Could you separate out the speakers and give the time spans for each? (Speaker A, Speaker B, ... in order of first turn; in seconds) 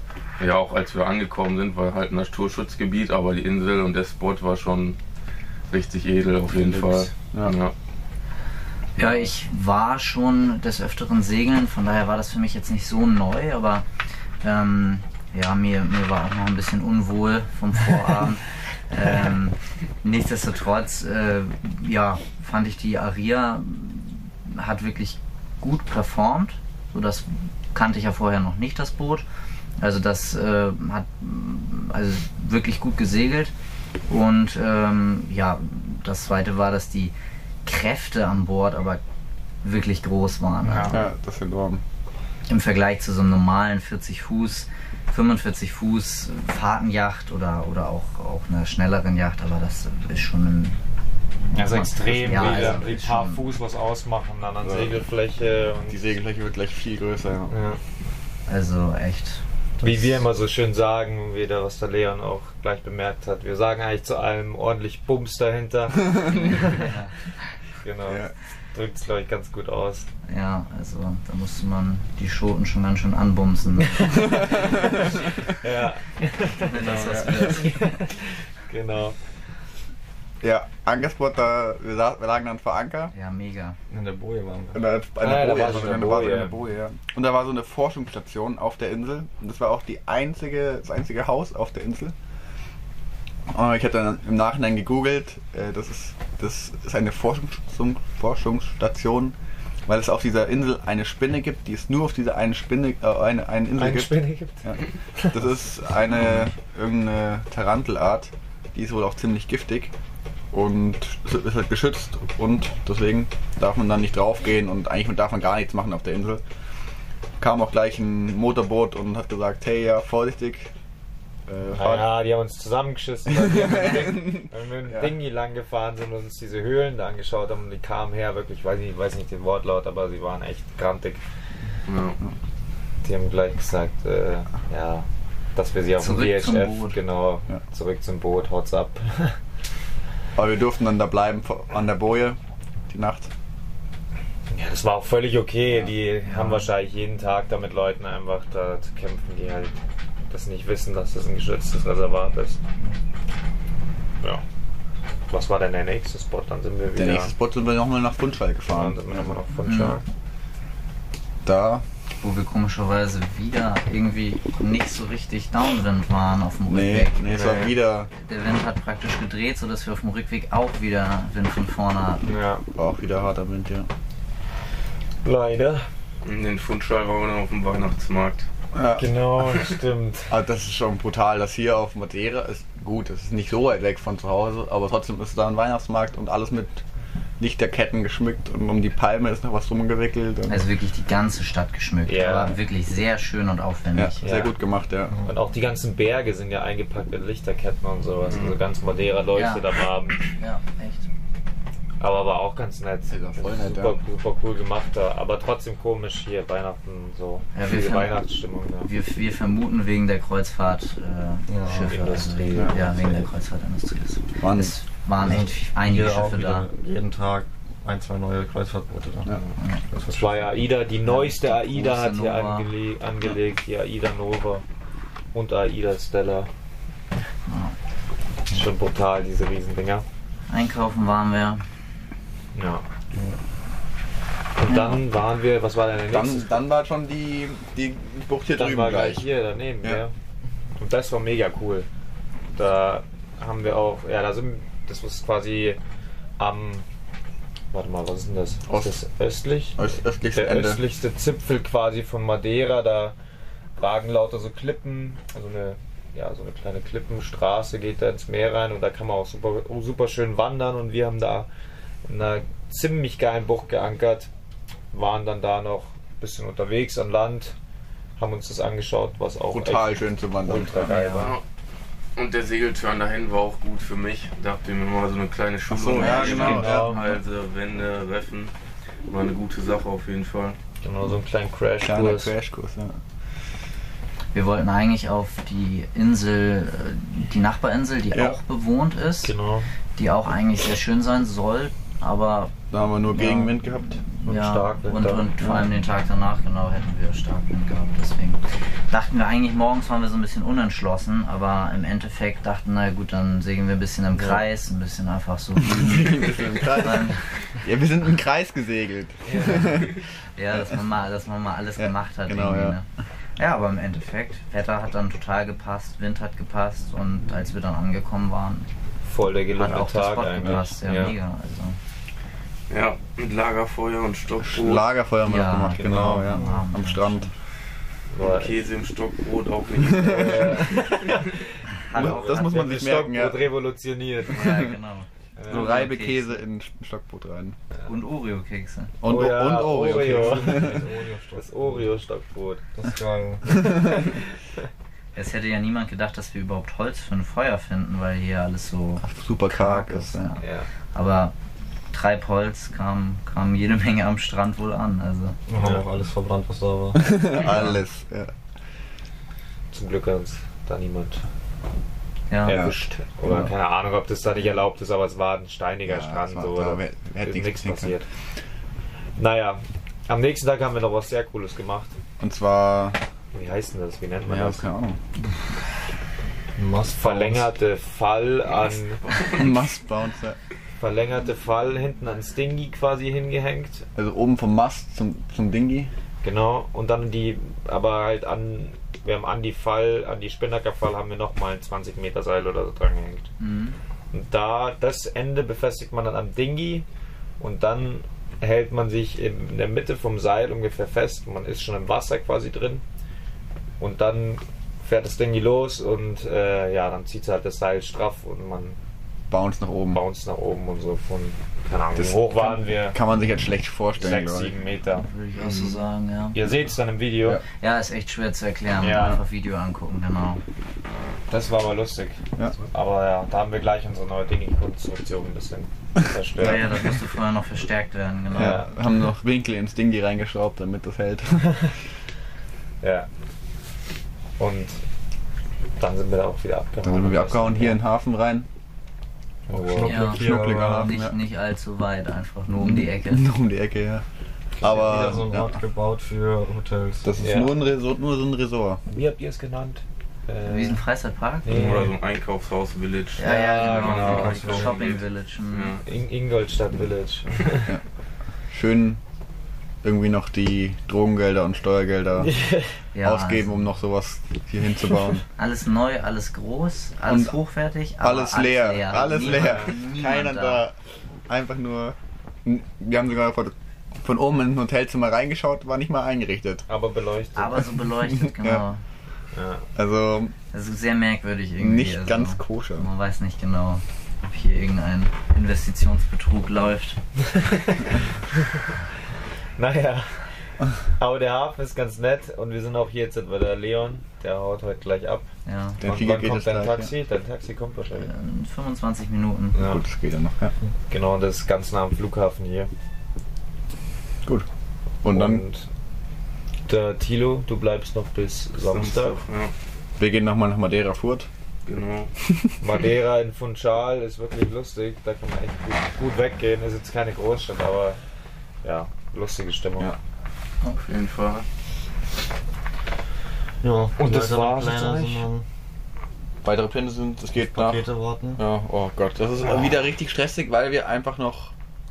Speaker A: 0.4-5.0, 5.7-7.7, 131.9-132.2, 176.2-178.5, 198.3-198.6, 271.1-271.4, 272.1-278.5, 279.1-280.6, 322.7-324.9, 328.2-331.4, 378.5-379.6, 451.5-455.8, 508.6-509.5, 511.6-512.1, 520.6-521.5
Speaker B: 6.5-7.6, 40.7-41.8, 54.6-55.0, 55.9-57.6, 68.1-68.3, 74.5-74.8, 76.8-77.6, 80.4-83.1, 84.7-92.1, 93.5-99.4, 99.9-109.9, 110.5-116.4, 117.4-120.7, 121.5-122.1, 123.3-125.1, 140.4-142.4, 142.9-143.3, 157.0-159.4, 161.4-161.8, 166.7-168.1, 172.8-173.9, 178.7-179.1, 180.3-186.8, 187.4-190.7, 193.9-195.2, 203.1-204.0, 212.5-212.9, 214.4-214.8, 236.1-239.3, 248.7-249.0, 249.8-250.8, 269.5-270.8, 275.7-277.0, 281.8-283.0, 288.1-288.4, 292.7-294.0, 305.6-310.0, 311.8-312.8, 324.4-327.3, 329.8-330.6, 332.0-333.4, 334.3-334.8, 335.5-337.6, 339.0-340.9, 349.0-350.3, 356.9-358.3, 362.5-363.5, 365.9-368.0, 372.2-373.0, 374.2-375.0, 379.3-380.4, 384.0-385.9, 409.3-410.0, 412.0-414.5, 418.9-419.2, 426.4-426.7, 428.3-431.5, 436.8-438.5, 440.1-441.1, 442.6-444.0, 444.6-445.6, 447.0-448.8, 458.5-459.0, 459.8-462.3, 463.0-465.2, 467.1-467.4, 468.0-470.8, 471.3-476.7, 478.0-478.6, 479.8-480.4, 481.6-482.9, 495.8-496.9, 499.6-500.5, 505.0-505.4, 510.0-511.3, 512.3-512.5, 526.4-527.9, 528.4-531.5
Speaker C: 9.0-13.8, 14.4-29.2, 29.8-33.5, 34.1-37.1, 37.6-39.0, 39.6-41.0, 42.5-50.8, 51.5-53.5, 58.5-59.4, 66.3-67.3, 70.3-74.2, 76.6-77.9, 83.1-83.8, 136.0-137.0, 159.7-160.0, 162.2-167.3, 168.2-172.2, 190.5-194.2, 199.3-199.7, 200.3-201.1, 207.5-208.2, 208.8-216.7, 221.0-222.7, 227.5-227.8, 230.5-231.6, 234.7-235.0, 270.8-271.4, 276.0-277.2, 284.3-289.3, 290.0-292.6, 293.1-293.6, 294.2-307.4, 309.4-312.9, 313.4-318.7, 319.6-321.8, 325.2-327.3, 331.8-332.8, 334.3-336.4, 337.9-339.0, 345.1-351.3, 351.9-355.4, 362.3-362.6, 393.4-393.8, 415.0-416.5, 417.6-420.4, 426.4-428.7, 439.8-443.2, 450.4-451.6, 453.2-455.8, 462.9-463.6, 465.4-470.6, 477.4-478.8, 480.5-487.0, 495.5-495.8, 497.9-499.6
Speaker D: 40.6-41.0, 51.5-56.1, 57.5-57.8, 59.8-66.9, 67.8-70.1, 73.9-79.2, 85.2-86.6, 103.8-105.5, 121.7-131.2, 133.0-139.4, 144.5-149.8, 150.3-152.6, 155.3-157.3, 158.7-160.1, 167.3-167.7, 172.2-172.6, 175.2-175.9, 179.0-180.3, 192.1-192.6, 194.2-194.5, 195.2-200.2, 202.0-208.9, 211.9-212.8, 220.1-224.6, 225.3-226.5, 228.5-230.1, 232.6-232.8, 234.6-236.7, 238.5-240.1, 240.8-241.9, 242.5-245.8, 246.4-246.8, 247.7-253.1, 253.8-261.5, 262.1-264.3, 264.9-267.6, 268.2-271.4, 276.1-277.0, 280.8-282.3, 289.2-289.7, 294.2-295.7, 309.2-309.7, 319.0-321.1, 325.8-326.3, 328.1-328.6, 330.1-331.4, 331.9-334.5, 335.4-335.9, 339.0-342.7, 350.4-350.7, 355.6-355.9, 357.5-357.8, 359.7-361.2, 362.4-368.1, 369.2-371.9, 373.3-374.7, 377.0-379.1, 380.8-383.9, 386.2-393.3, 394.1-396.9, 397.4-402.8, 403.8-408.8, 409.9-413.0, 414.0-417.4, 418.8-419.2, 421.3-426.8, 428.3-428.7, 432.8-433.1, 434.4-434.8, 435.8-437.8, 439.5-440.2, 444.6-444.9, 447.2-447.6, 448.9-450.9, 451.4-451.9, 453.2-454.7, 455.8-457.7, 462.2-462.7, 469.1-469.8, 476.7-477.6, 479.3-479.7, 487.3-488.7, 489.6-490.3, 491.0-495.3, 495.8-498.1, 499.6-499.8, 500.9-502.7, 505.1-505.7, 506.7-509.2, 512.6-518.0, 518.6-519.9, 524.0-525.2
Speaker E: 83.9-84.8, 211.5-211.9, 215.2-220.4, 326.3-326.6, 339.8-341.9, 342.8-343.6, 355.5-357.1, 376.6-377.5, 439.5-440.9, 444.7-447.1, 454.1-454.8, 523.6-525.5, 527.4-528.4